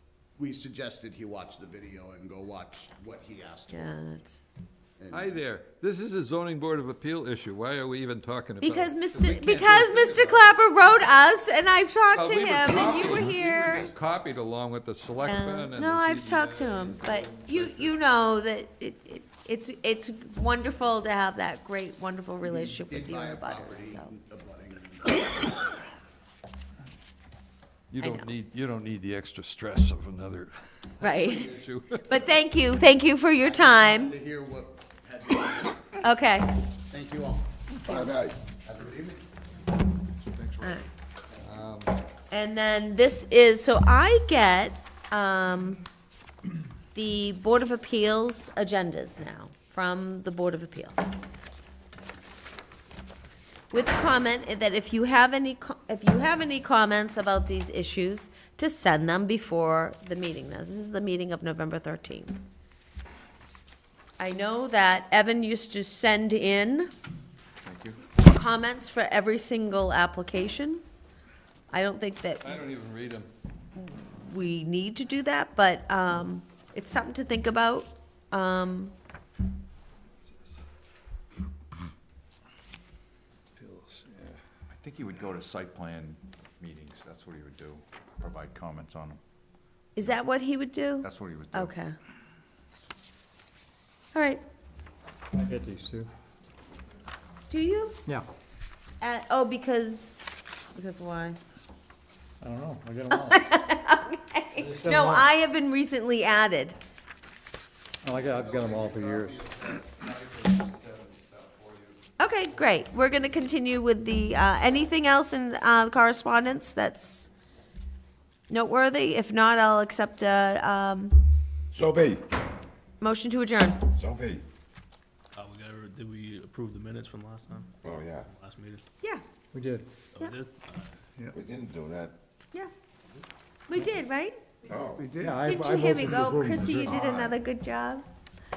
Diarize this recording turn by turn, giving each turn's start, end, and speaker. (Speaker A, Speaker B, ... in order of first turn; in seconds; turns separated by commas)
Speaker A: 0.3-3.9, Speaker B: 3.7-4.4, Speaker A: 5.0-5.4, Speaker C: 5.1-10.5, Speaker B: 8.6-13.9, Speaker C: 12.1-17.9, Speaker B: 15.2-24.1, Speaker A: 22.4-25.6, Speaker C: 27.9-32.3, Speaker B: 28.0-28.3, Speaker B: 31.0-31.5, Speaker B: 32.1-34.1, Speaker A: 33.4-36.0, Speaker B: 36.0-36.6, Speaker A: 36.9-38.0, Speaker D: 37.9-38.4, Speaker A: 38.6-39.2, Speaker B: 40.6-40.9, Speaker C: 41.4-42.0, Speaker B: 42.3-45.8, Speaker B: 46.9-51.1, Speaker B: 53.7-62.4, Speaker B: 64.2-66.9, Speaker C: 67.6-68.0, Speaker B: 68.1-70.8, Speaker B: 71.7-72.6, Speaker C: 72.4-73.3, Speaker B: 73.8-78.9, Speaker C: 83.6-84.4, Speaker E: 84.7-89.2, Speaker B: 89.9-91.9, Speaker E: 91.0-91.7, Speaker B: 94.1-94.4, Speaker F: 95.3-96.1, Speaker B: 97.5-98.0, Speaker B: 99.0-101.4, Speaker F: 102.4-103.4, Speaker B: 103.1-106.7, Speaker F: 104.5-105.3, Speaker F: 108.0-109.4, Speaker C: 108.1-112.0, Speaker B: 112.2-117.3, Speaker B: 118.5-121.1, Speaker D: 121.7-122.2, Speaker B: 123.0-123.8, Speaker D: 123.9-124.4, Speaker G: 125.3-128.8, Speaker D: 127.8-128.3, Speaker F: 129.5-129.9, Speaker G: 130.1-131.2, Speaker D: 131.3-132.1, Speaker B: 133.7-134.4, Speaker D: 134.7-135.1, Speaker F: 135.1-137.2, Speaker B: 135.4-138.0, Speaker D: 136.9-137.3